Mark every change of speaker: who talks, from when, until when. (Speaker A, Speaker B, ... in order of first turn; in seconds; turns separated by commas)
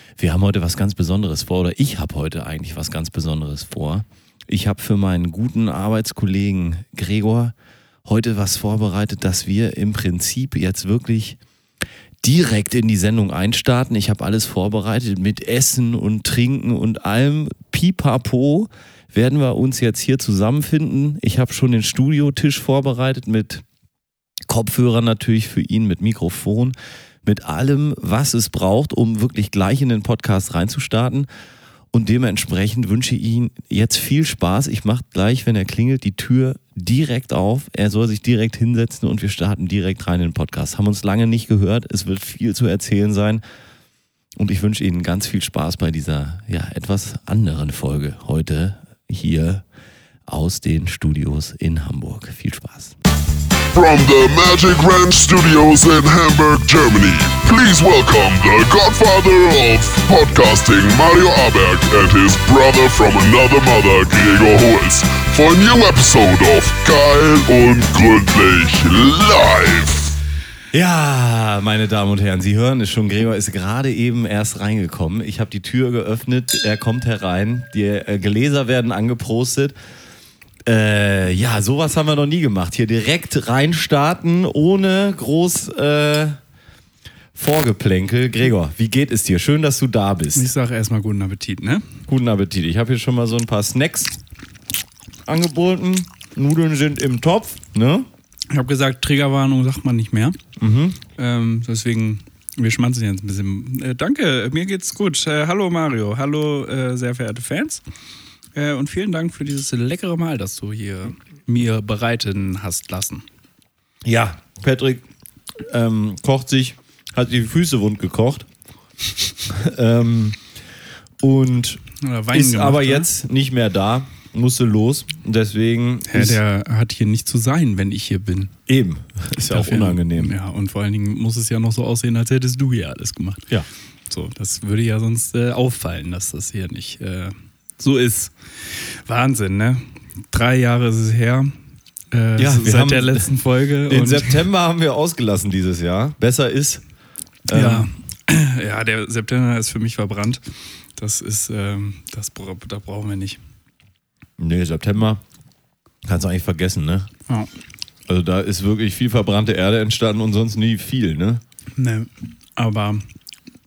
Speaker A: 0.2-7.5, Speaker A: 8.1-11.4, Speaker A: 12.2-23.6, Speaker A: 24.5-31.3, Speaker A: 31.9-43.4, Speaker A: 44.4-49.6, Speaker A: 50.3-53.0, Speaker B: 53.7-70.1, Speaker A: 70.7-79.8, Speaker A: 80.7-86.4, Speaker A: 87.3-90.5, Speaker C: 90.3-91.9, Speaker A: 92.1-94.2, Speaker A: 95.3-98.1, Speaker C: 98.5-100.4, Speaker A: 100.6-101.0, Speaker C: 101.2-107.8, Speaker C: 108.5-113.3, Speaker A: 114.0-115.0, Speaker A: 115.7-118.5, Speaker A: 119.5-120.4, Speaker A: 121.2-126.4, Speaker C: 122.0-123.1, Speaker C: 126.1-128.5, Speaker A: 128.7-130.3, Speaker C: 129.5-133.5, Speaker C: 134.1-141.5, Speaker C: 142.1-144.5, Speaker A: 142.4-143.3, Speaker A: 143.9-146.8, Speaker A: 147.5-147.9, Speaker C: 147.5-150.4, Speaker C: 151.0-153.4, Speaker A: 154.4-155.2, Speaker A: 156.1-157.1, Speaker A: 158.1-161.4, Speaker C: 161.8-163.1